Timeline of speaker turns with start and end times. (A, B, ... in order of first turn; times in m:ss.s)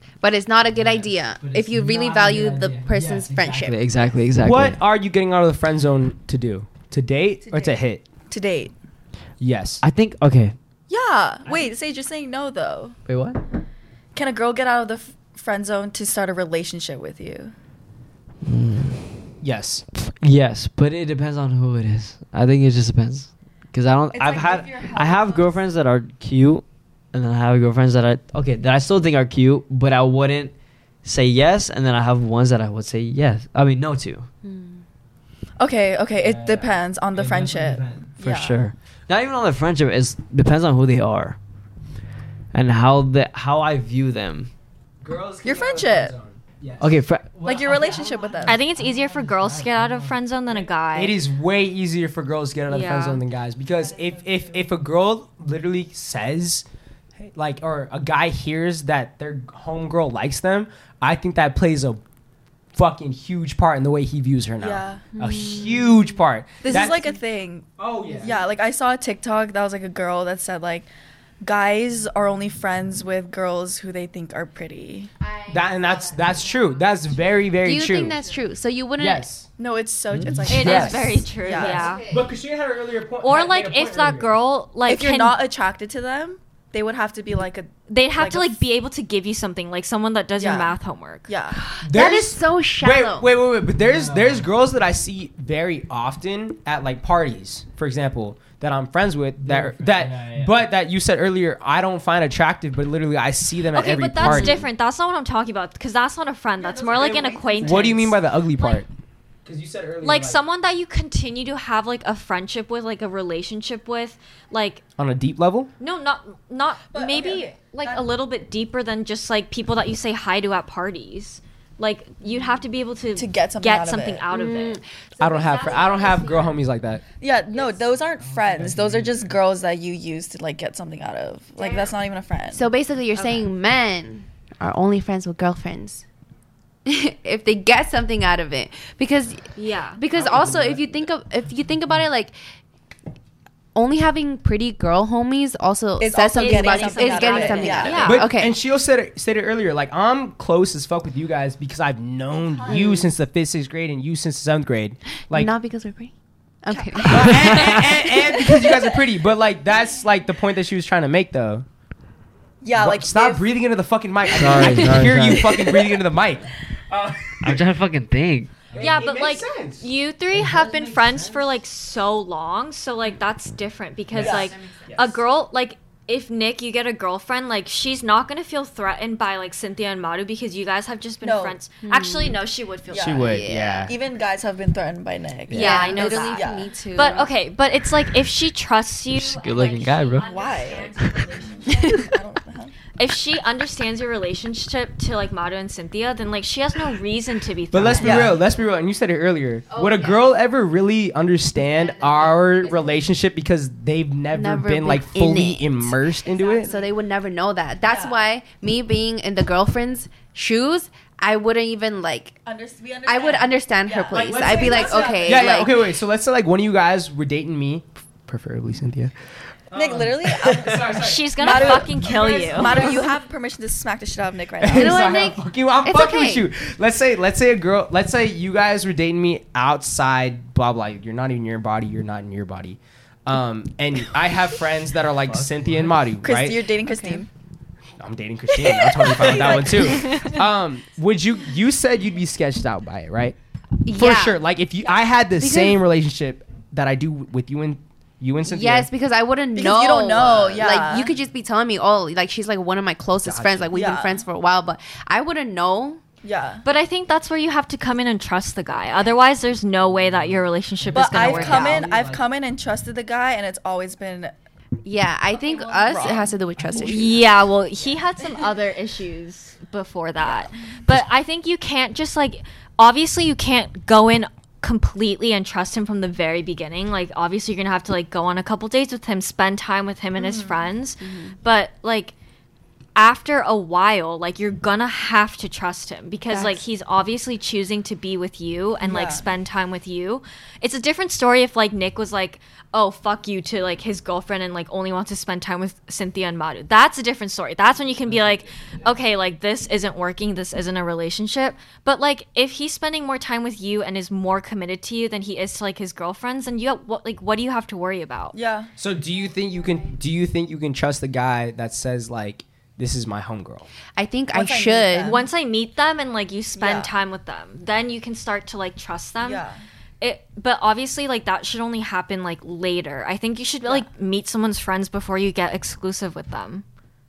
0:00.2-0:03.8 A
0:01.4-0:03.5 B
0:03.6-0:04.8 C
0:04.4-0:08.0 B
0:07.4-0:08.7 D
0:09.4-0:09.8 B
0:09.8-0:10.6 C
0:10.9-0:13.0 D
0:13.0-0:13.4 C
0:14.1-0:17.5 D
0:18.4-0:19.2 C
0:19.4-0:19.9 B
0:20.2-0:30.5 C
0:24.1-0:25.7 D
0:31.0-0:34.3 C
0:34.4-0:34.8 A
0:35.6-0:38.6 D
0:36.2-0:38.1 B
0:38.2-0:41.4 C
0:42.5-0:44.5 C
0:45.0-0:56.6 B
0:45.4-0:46.1 D
0:46.8-0:47.4 C
0:47.4-0:48.6 D
0:48.4-0:51.1 E
0:52.7-0:53.2 E
0:57.2-1:02.0 B
1:02.7-1:07.0 B
1:04.6-1:05.1 D
1:05.1-1:06.0 A
1:06.6-1:10.9 D
1:06.7-1:06.9 A
1:07.8-1:08.4 B
1:11.4-1:15.1 D
1:15.2-1:19.3 A
1:15.5-1:18.2 B
1:19.0-1:19.5 B
1:19.6-1:22.0 D
1:20.1-1:20.6 C
1:20.2-1:24.4 B
1:20.5-1:22.0 E
1:21.6-1:22.3 A
1:23.2-1:25.4 E
1:24.8-1:28.6 D
1:27.9-1:31.3 E
1:30.4-1:30.8 D
1:31.3-1:31.6 D
1:31.7-1:44.7 B
1:31.8-1:33.3 A
1:39.4-1:40.5 C
1:43.7-1:48.8 E
1:44.2-1:44.6 A
1:46.6-1:48.1 D
1:47.6-1:48.8 B
1:49.4-1:50.4 B
1:50.0-1:54.8 E
1:55.0-1:55.7 B
1:55.8-2:04.8 E
1:56.9-1:58.1 D
2:03.1-2:04.3 D
2:04.3-2:06.4 A
2:05.2-2:07.0 B
2:05.5-2:06.4 E
2:07.2-2:12.6 D
2:12.5-2:16.0 A
2:13.1-2:13.5 E
2:16.8-2:22.3 A
2:19.6-2:20.0 E
2:20.1-2:21.0 B
2:23.7-2:28.6 A
2:26.0-2:28.2 D
2:26.3-2:28.2 E
2:28.0-2:35.5 B
2:32.5-2:33.0 D
2:32.7-2:33.1 A
2:35.3-2:37.8 A
2:36.7-2:37.1 D
2:37.1-2:41.6 B
2:37.2-2:37.8 C
2:42.6-2:43.4 D
2:42.7-2:47.6 B
2:44.3-2:44.9 D
2:44.3-2:45.5 C
2:45.4-2:45.9 D
2:47.4-2:48.6 C
2:48.7-2:51.5 B
2:48.8-3:03.3 E
2:54.1-2:55.2 B
2:54.2-2:54.6 D
3:01.2-3:01.6 D
3:01.8-3:02.4 A
3:02.9-3:06.7 D
3:02.9-3:03.9 B
3:03.2-3:03.9 A
3:05.5-3:07.3 A
3:05.5-3:12.0 E
3:09.1-3:10.3 C
3:10.2-3:12.7 D
3:11.0-3:11.3 C
3:13.0-3:18.3 E
3:17.7-3:26.8 B
3:18.0-3:18.4 D
3:19.7-3:20.3 A
3:21.7-3:22.8 A
3:24.3-3:32.4 A
3:27.8-3:28.2 D
3:32.4-3:35.6 D
3:33.0-3:35.9 A
3:34.1-3:39.1 B
3:39.7-3:43.0 B
3:39.7-3:45.1 D
3:40.9-3:42.8 E
3:44.6-3:56.6 B
3:44.7-3:46.5 A
3:55.2-3:56.0 C
3:56.2-3:57.3 D
3:56.8-3:57.2 A
3:58.0-4:03.4 B
3:58.7-4:00.3 D
4:03.8-4:04.4 A
4:03.9-4:08.9 B
4:05.4-4:05.8 A
4:08.4-4:16.0 A
4:09.6-4:11.1 D
4:10.1-4:10.8 B
4:13.2-4:13.7 B
4:13.7-4:14.2 D
4:16.2-4:16.6 D
4:16.6-4:21.8 E
4:20.8-4:22.2 B
4:20.9-4:24.3 D
4:24.8-4:27.2 A
4:25.3-4:26.9 D
4:26.6-4:26.9 B
4:26.8-4:42.1 E
4:30.2-4:30.5 D
4:40.2-4:40.7 D
4:41.0-4:41.4 A
4:43.0-5:08.4 E
4:46.3-4:46.6 A
4:48.8-4:49.2 D
4:58.1-4:58.7 B
5:08.3-5:08.7 D
5:08.8-5:13.7 B
5:14.0-5:15.2 A
5:14.3-5:15.3 D
5:15.0-5:19.4 E
5:16.6-5:16.9 D
5:19.2-5:19.6 D
5:20.0-5:26.6 E